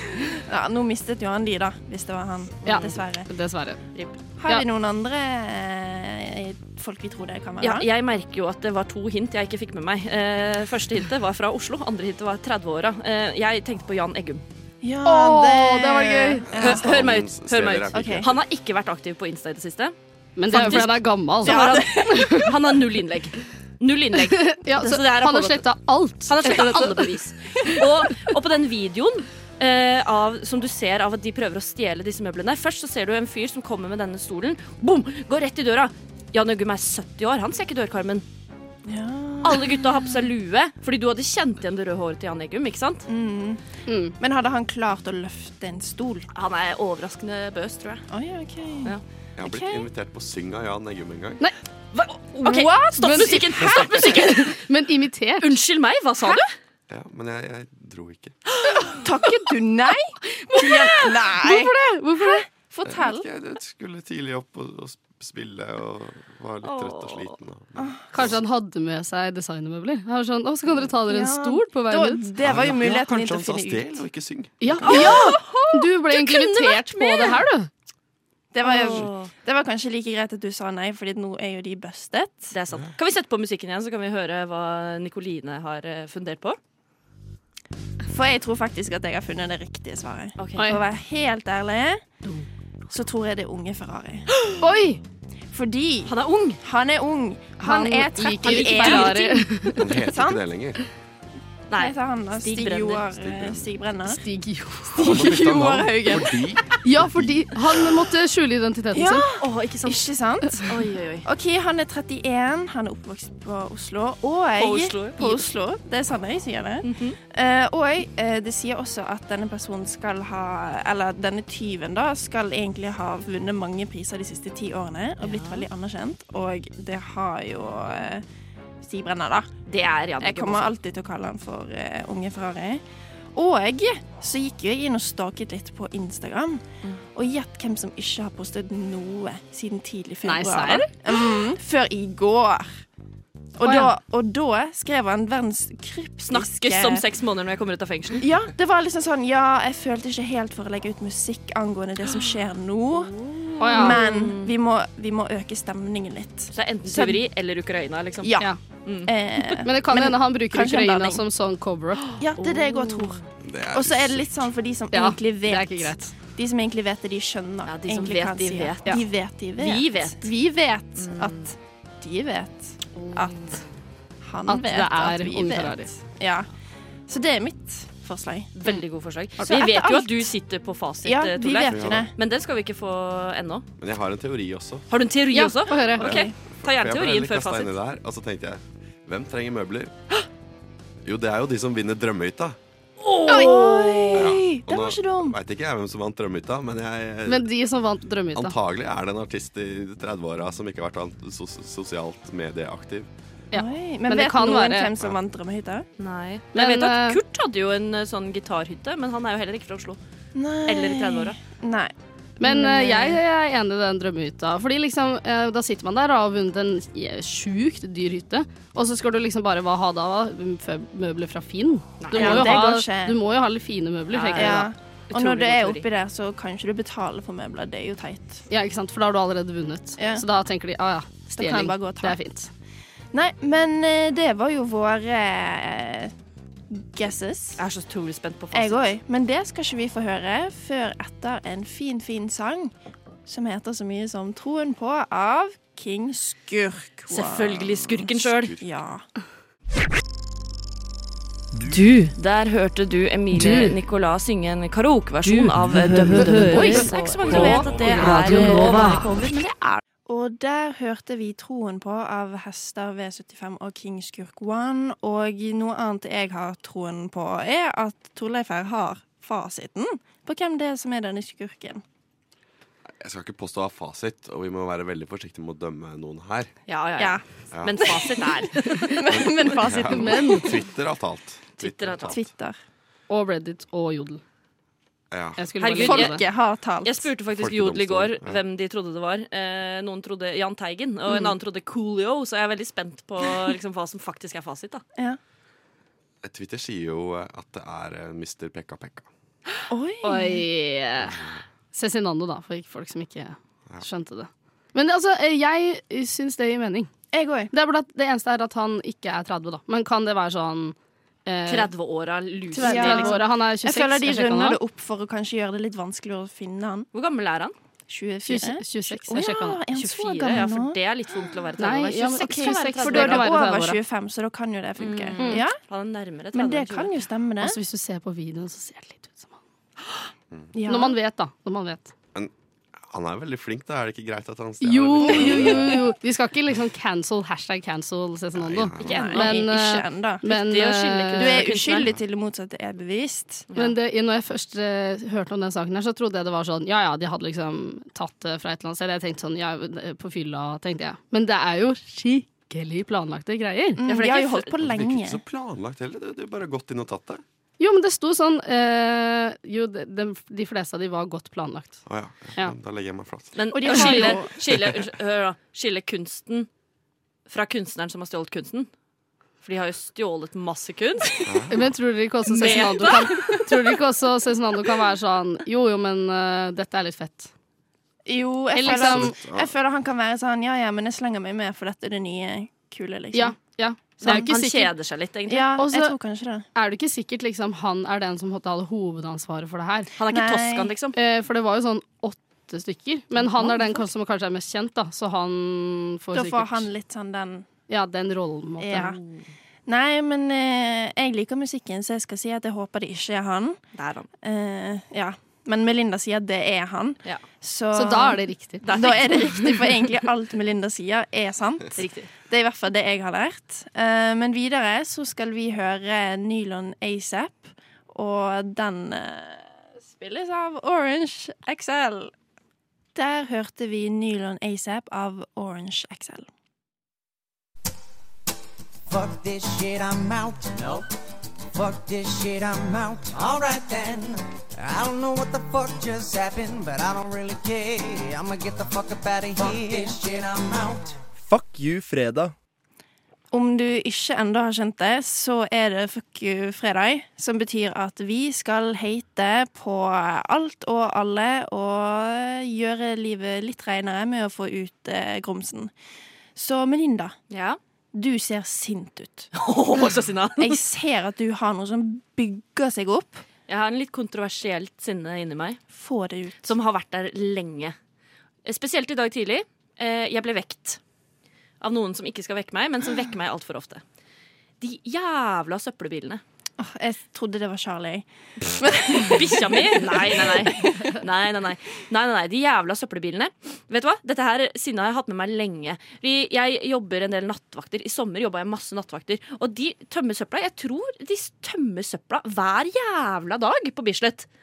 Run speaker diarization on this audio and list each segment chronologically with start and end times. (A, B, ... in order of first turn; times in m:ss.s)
0:00.5-0:03.3 A
0:02.6-0:03.8 B
0:04.4-0:07.9 A
0:07.6-0:14.4 C
0:14.8-0:16.9 A
0:15.0-0:16.5 B
0:16.5-0:18.4 D
0:16.5-0:20.0 C
0:17.9-0:18.3 A
0:20.4-0:22.5 B
0:20.5-0:25.7 C
0:21.4-0:22.5 A
0:24.3-0:27.8 B
0:26.2-0:38.2 C
0:38.9-0:40.2 A
0:39.4-0:43.0 C
0:43.1-0:43.6 A
0:43.9-0:44.2 B
0:44.2-0:46.3 A
0:46.4-0:48.1 C
0:48.1-0:49.9 A
0:49.4-0:51.4 D
0:51.9-0:54.6 C
0:52.4-0:53.8 A
0:53.0-0:55.5 B
0:55.4-0:56.5 C
0:56.9-0:58.4 D
0:58.6-0:59.0 C
0:58.9-1:03.3 A
1:00.4-1:02.4 B
1:02.8-1:08.4 D
1:06.6-1:07.4 C
1:07.8-1:08.2 A
1:08.1-1:12.3 B
1:11.0-1:14.0 A
1:12.4-1:15.1 D
1:14.6-1:17.7 B
1:14.8-1:17.4 C
1:18.5-1:22.5 A
1:18.6-1:19.3 C
1:22.5-1:26.6 C
1:28.1-1:32.0 A
1:30.4-1:30.7 C
1:32.9-1:34.3 A
1:34.6-1:35.0 B
1:35.5-1:39.3 A
1:36.1-1:36.6 C
1:37.6-1:39.8 B
1:38.4-1:39.5 C
1:39.8-1:40.8 D
1:40.0-1:40.4 A
1:41.7-1:43.0 C
1:41.8-1:44.2 A
1:43.2-1:43.7 D
1:44.1-1:45.5 B
1:45.0-1:47.6 D
1:45.0-1:46.4 A
1:46.8-1:49.3 B
1:48.9-1:50.7 A
1:49.4-1:50.1 C
1:50.6-1:51.3 C
1:51.2-2:08.2 A
1:54.6-1:55.4 C
1:56.8-1:57.2 C
2:05.2-2:05.7 C
2:08.8-2:09.5 A
2:09.7-2:10.7 C
2:10.2-2:12.8 A
2:13.4-2:22.8 A
2:20.2-2:21.0 B
2:23.6-2:27.0 A
2:23.6-2:23.9 B
2:26.3-2:28.2 C
2:28.2-2:33.1 A
2:33.0-2:34.6 C
2:33.6-2:34.0 B
2:33.7-2:37.2 A
2:36.5-2:38.3 C
2:38.2-2:38.5 A
2:38.8-2:39.1 C
2:39.1-2:41.2 A
2:39.6-2:42.0 B
2:42.2-2:53.6 A
2:42.4-2:43.2 C
2:43.4-2:44.5 D
2:44.9-2:46.2 B
2:47.6-2:49.0 C
2:49.6-2:50.3 C
2:51.0-2:51.5 C
2:53.0-2:53.7 C
2:54.2-2:56.5 A
2:54.5-2:55.9 B
2:57.1-2:58.8 A
2:58.6-3:03.6 C
2:59.4-3:00.3 A
3:01.0-3:02.1 A
3:01.6-3:02.1 D
3:03.8-3:04.9 D
3:04.9-3:07.8 C
3:05.3-3:06.1 B
3:05.7-3:06.3 A
3:06.1-3:09.9 D
3:11.0-3:12.6 D
3:13.0-3:14.3 C
3:13.3-3:15.4 A
3:14.1-3:17.5 D
3:17.3-3:18.6 B
3:18.4-3:23.1 D
3:23.5-3:24.9 B
3:23.5-3:25.9 A
3:26.0-3:30.0 C
3:26.5-3:27.2 B
3:30.4-3:31.9 A
3:30.7-3:31.4 C
3:32.4-3:44.7 B
3:32.4-3:33.2 A
3:42.0-3:42.8 C
3:42.1-3:43.2 A
3:44.1-3:45.9 C
3:44.3-3:48.4 A
3:48.5-3:52.5 B
3:50.0-3:50.2 A
3:51.4-3:52.2 A
3:53.1-3:56.1 A
3:56.7-3:57.6 A
3:57.6-3:58.9 C
3:58.5-4:02.7 A
4:03.3-4:07.8 A
4:07.1-4:08.6 C
4:07.6-4:08.6 D
4:08.6-4:09.0 A
4:11.7-4:19.8 C
4:13.4-4:13.8 B
4:15.2-4:19.1 B
4:16.4-4:19.0 A
4:20.1-4:31.8 A
4:33.0-4:36.5 D
4:36.7-4:39.0 C
4:37.5-4:37.9 D
4:37.8-4:40.4 A
4:39.1-4:42.3 D
4:39.8-4:40.5 B
4:41.6-4:42.2 C
4:42.1-4:42.6 A
4:43.1-4:44.2 B
4:45.1-4:45.5 D
4:45.4-4:46.2 B
4:45.6-4:46.3 C
4:45.8-4:47.1 A
4:46.8-4:54.8 C
4:47.3-4:48.4 D
4:56.2-4:59.1 D
4:59.7-5:00.4 A
5:00.0-5:01.2 B
5:01.0-5:01.4 D
5:01.7-5:06.9 B
5:07.1-5:07.5 A
5:07.5-5:10.8 B
5:11.3-5:11.7 B
5:11.5-5:13.2 C
5:12.5-5:14.6 B
5:12.5-5:16.9 A
5:16.9-5:17.6 C
5:17.9-5:20.8 A
5:18.2-5:19.6 B
5:19.7-5:23.3 C
5:21.6-5:23.8 B
5:22.2-5:25.6 A
5:24.8-5:26.9 C
5:25.2-5:25.4 B
5:26.3-5:27.6 A
5:27.4-5:29.4 B
5:30.5-5:31.0 A
5:30.7-5:31.9 B
5:32.8-5:35.8 D
5:34.6-5:41.5 B
5:35.1-5:35.6 A
5:38.4-5:39.0 D
5:38.8-5:40.2 A
5:38.8-5:39.5 C
5:40.2-5:41.9 C
5:41.2-5:43.5 A
5:43.5-5:43.8 C
5:43.6-5:53.8 B
5:53.8-5:55.2 A
5:53.9-5:54.5 C
5:54.6-5:57.2 D
5:57.6-6:01.8 B
6:01.9-6:03.4 D
6:03.4-6:06.5 C
6:03.5-6:04.7 A
6:03.7-6:04.2 B
6:07.3-6:08.7 C
6:09.4-6:11.4 C
6:11.2-6:11.7 D
6:11.5-6:17.3 B
6:12.3-6:13.4 C
6:12.5-6:12.9 A
6:18.1-6:23.4 A
6:18.5-6:19.2 B
6:18.6-6:19.5 D
6:23.1-6:24.7 B
6:24.0-6:24.5 A
6:24.0-6:25.5 C
6:25.3-6:26.5 A
6:25.6-6:26.0 B
6:26.6-6:29.9 B
6:30.0-6:31.0 C
6:30.1-6:30.7 A
6:30.9-6:36.7 B
6:33.2-6:33.8 A
6:36.1-6:37.5 A
6:37.7-6:39.0 B
6:38.6-6:39.0 A
6:39.7-6:43.6 A
6:43.8-6:44.1 C
6:44.2-7:02.1 A
6:47.7-6:48.7 B
6:48.6-6:49.8 C
6:51.8-6:52.1 C
7:03.0-7:06.3 A
7:08.9-7:10.9 E
7:11.6-7:21.0 E
7:23.3-7:35.7 A
7:36.4-7:37.2 A
7:37.3-7:37.6 C
7:37.9-7:39.3 A
7:39.4-7:40.6 C
7:40.4-7:43.2 A
7:43.5-7:45.6 C
7:45.7-7:46.5 A
7:46.4-7:47.8 C
7:48.4-7:50.8 C
7:51.6-7:53.8 C
7:54.6-7:56.2 C
7:56.6-8:00.8 A
7:59.0-8:14.3 C